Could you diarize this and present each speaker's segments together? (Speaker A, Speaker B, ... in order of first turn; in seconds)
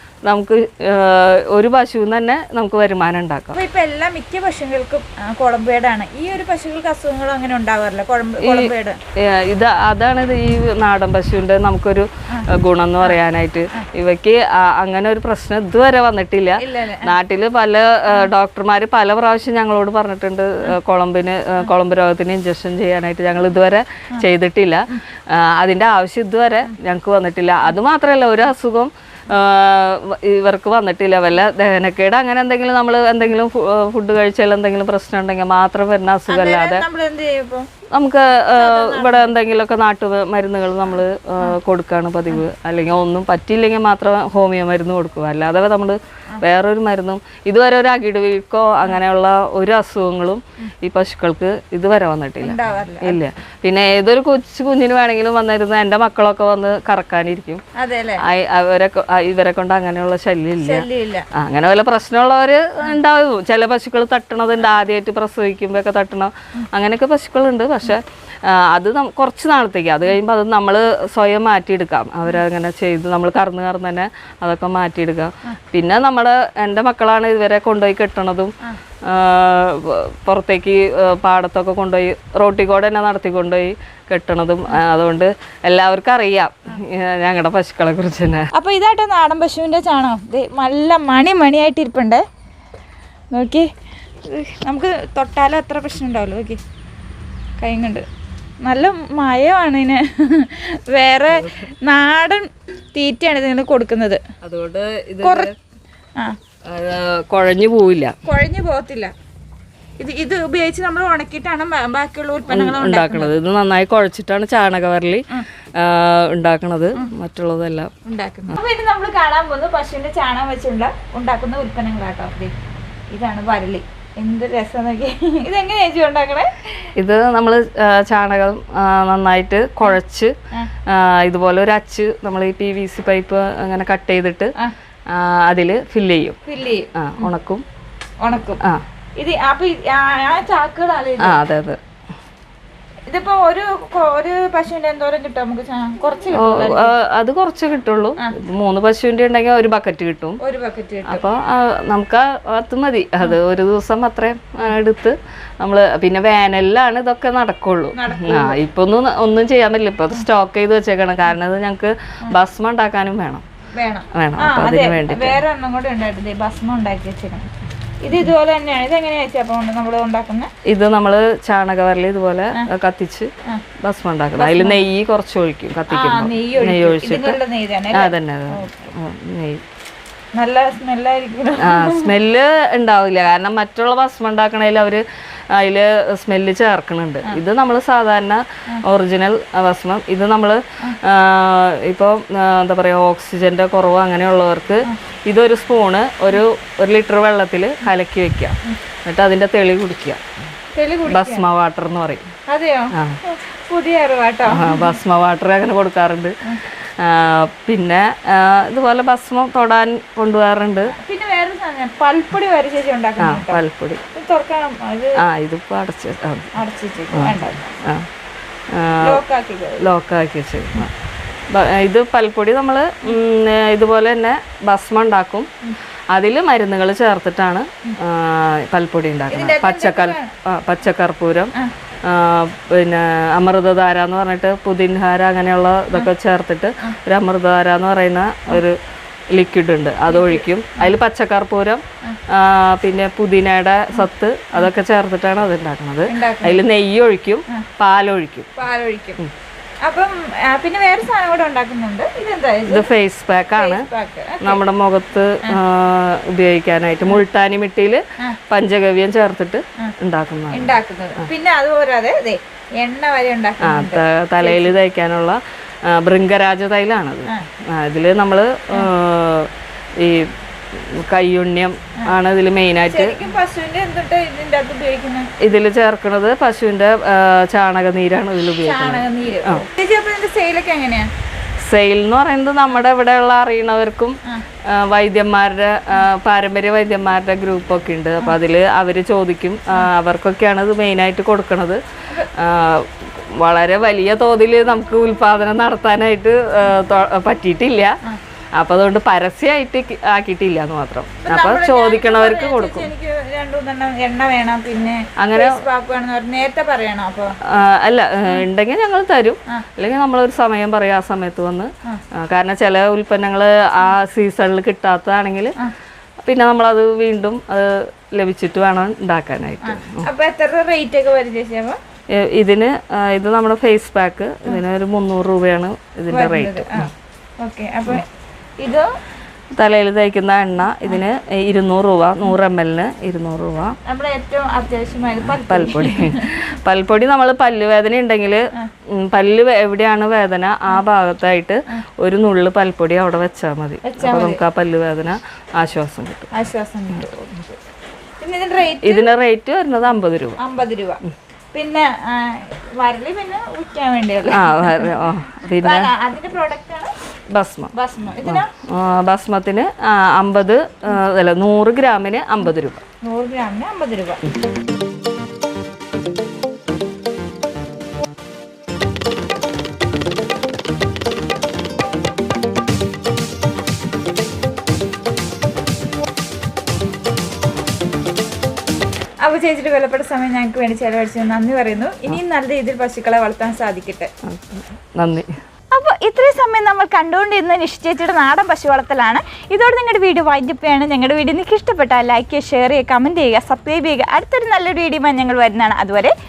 Speaker A: 0.2-3.6, 8.4-36.9, 37.9-57.6, 58.2-88.5, 101.3-101.5, 104.4-105.5, 106.7-108.2, 112.5-117.9, 127.0-130.3, 130.8-134.5, 135.1-136.4, 136.9-137.6, 141.2-141.8, 146.3-150.4, 151.1-163.4, 164.1-165.4, 170.7-173.3, 173.8-177.4, 177.9-179.6, 181.6-200.2, 201.1-202.3, 202.9-203.2, 204.5-210.9, 213.2-214.0, 215.2-216.6, 217.1-218.1, 218.7-219.2, 219.8-220.9, 221.5-225.5, 226.1-231.5, 232.0-238.8, 239.3-248.5, 252.7-253.8, 254.4-261.3, 263.6-273.2, 275.4-279.6, 281.6-291.8, 292.3-298.0, 298.6-302.9, 305.2-305.6, 307.5-315.6, 316.2-320.1, 322.1-326.9, 329.5-333.8, 335.2-346.3, 348.8-350.4, 354.3-355.9, 357.3-357.7, 358.2-362.8, 384.2-385.3
Speaker B: 3.5-9.0, 16.6-17.1, 36.3-37.7, 38.5-39.3, 52.4-53.2, 57.8-58.2, 60.6-61.3, 88.5-92.2, 93.3-93.7, 94.2-96.6, 97.6-98.0, 98.6-104.2, 105.2-105.5, 108.2-109.1, 110.0-113.4, 118.0-122.5, 123.1-126.9, 136.5-137.3, 138.2-138.6, 139.2-141.4, 143.1-146.9, 150.4-151.2, 157.9-158.6, 163.8-167.5, 168.0-170.5, 174.4-174.8, 175.9-178.9, 180.3-182.1, 200.7-201.4, 202.5-205.0, 210.9-215.2, 216.5-217.7, 219.0-219.9, 229.3-230.3, 240.1-240.9, 243.9-244.7, 246.1-246.6, 248.6-249.2, 249.8-252.9, 253.6-254.6, 260.5-264.8, 272.9-275.3, 278.6-281.1, 301.2-307.4, 319.6-321.8, 326.1-328.1, 328.6-328.9, 333.8-336.4, 343.8-344.4, 346.3-347.4, 348.2-349.1, 350.4-351.0, 351.5-354.9, 355.6-356.9, 357.7-358.5, 363.0-364.3, 379.2-384.1, 385.7-396.1